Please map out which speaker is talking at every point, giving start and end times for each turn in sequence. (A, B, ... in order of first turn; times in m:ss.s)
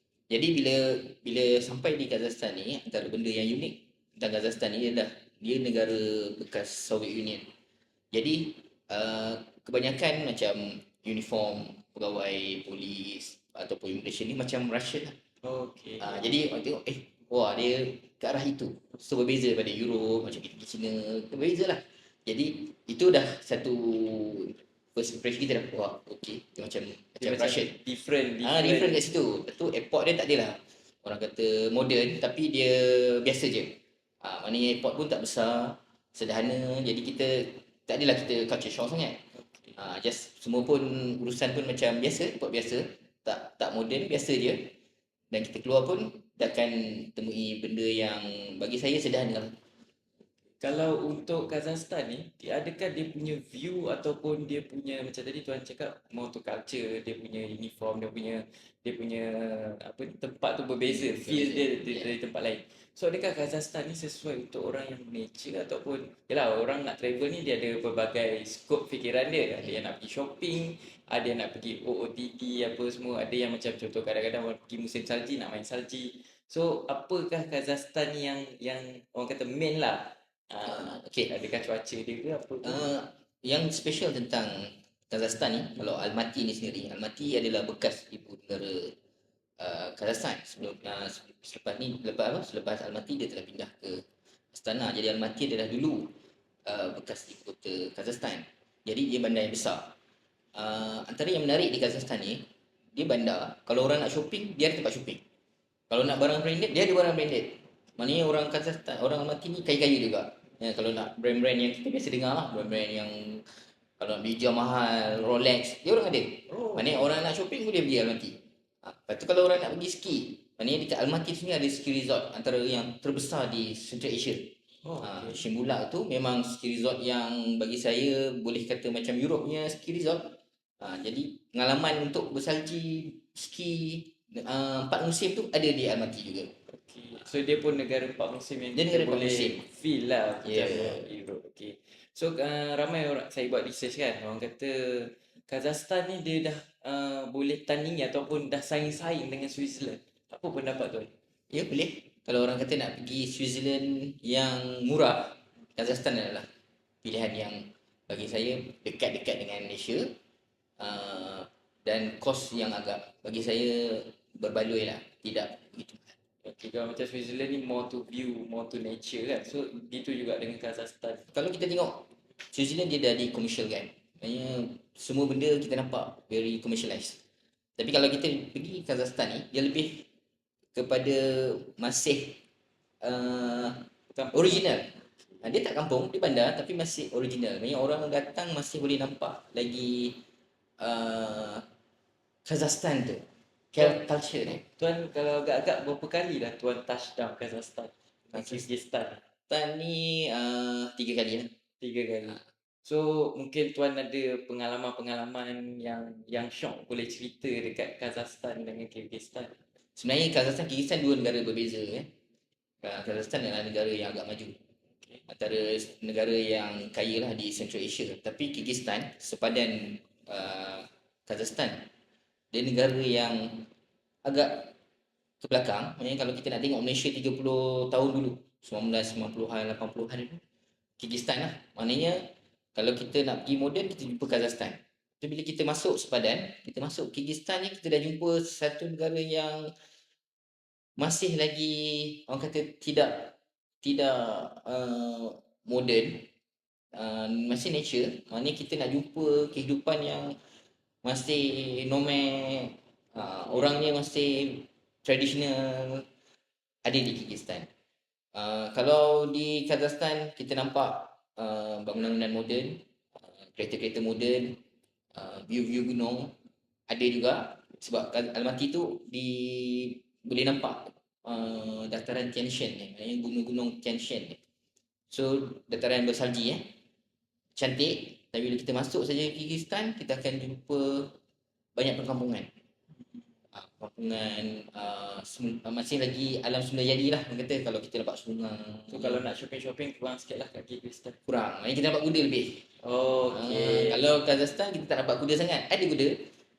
0:00.3-0:07.5 A
0:08.1-0:15.2 A
0:15.4-0:16.2 B
0:16.0-0:27.7 A
0:27.2-0:29.0 B
0:28.4-0:39.2 A
0:39.3-0:39.8 B
0:39.8-0:44.7 A
0:45.3-0:49.6 A
0:50.6-1:22.8 B
1:00.8-1:02.2 A
1:20.7-1:21.3 A
1:22.6-1:29.0 A
1:29.6-1:36.2 A
1:36.7-1:40.0 A
1:40.6-1:45.2 A
1:45.9-2:16.5 A
1:56.5-1:57.0 B
2:04.8-2:05.4 B
2:16.7-2:31.1 B
2:18.8-2:19.7 A
2:20.4-2:21.0 A
2:31.5-2:36.5 A
2:37.0-2:40.2 A
2:40.8-2:46.1 A
2:46.4-2:51.3 B
2:51.3-2:57.2 A
2:57.8-3:00.1 A
3:00.7-3:02.4 A
3:03.0-3:10.2 A
3:04.1-3:05.3 B
3:10.8-3:11.6 A
3:12.4-3:14.6 A
3:13.7-3:14.0 B
3:14.7-3:19.2 B
3:18.3-3:18.7 A
3:19.5-3:21.5 A
3:21.8-3:29.6 B
3:30.0-3:32.1 A
3:32.8-3:34.6 A
3:35.3-3:41.9 A
3:42.5-3:43.7 A
3:44.2-3:44.7 A
3:45.4-3:50.4 A
3:51.0-3:59.8 A
4:01.0-4:06.3 A
4:06.9-4:10.4 A
4:11.0-4:16.1 A
4:16.8-4:17.7 A
4:18.4-4:24.6 A
4:25.1-4:26.4 A
4:26.9-4:34.4 A
4:35.1-4:36.6 A
4:37.6-4:41.2 A
4:41.8-4:42.5 A
4:43.0-4:43.2 B
4:43.5-4:49.2 A
4:48.9-4:51.2 B
4:51.3-4:52.7 A
4:52.8-4:54.1 B
4:53.3-4:56.3 A